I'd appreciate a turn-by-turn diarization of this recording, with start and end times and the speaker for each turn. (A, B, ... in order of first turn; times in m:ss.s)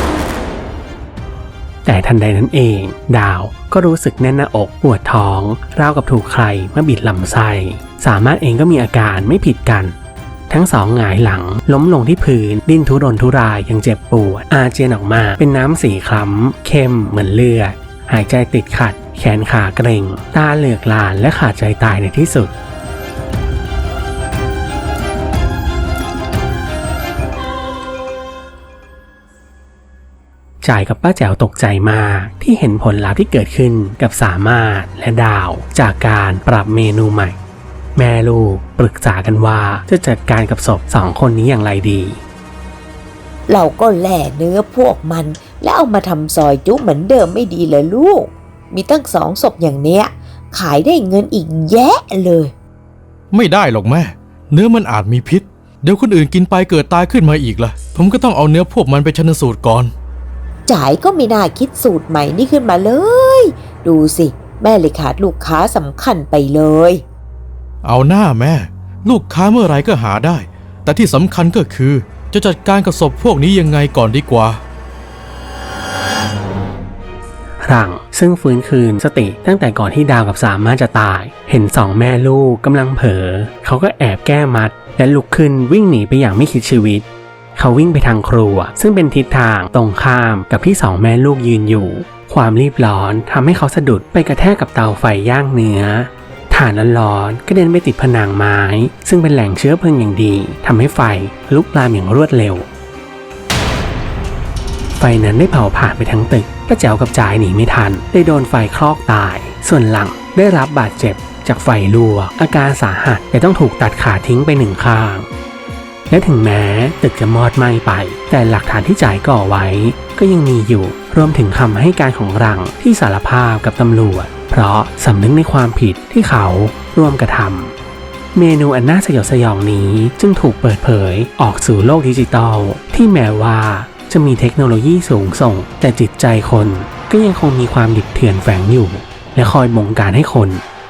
0:01.8-0:10.0 A
0:10.5-0:22.5 A
0:30.6-0:37.4 A
0:38.0-0:42.2 A
0:43.5-0:52.5 B
0:53.3-0:59.9 C
1:00.7-1:07.0 B
1:07.8-1:14.6 C
1:17.6-1:42.7 A
1:45.0-1:55.3 A
1:56.1-2:07.7 A
2:08.4-2:20.6 A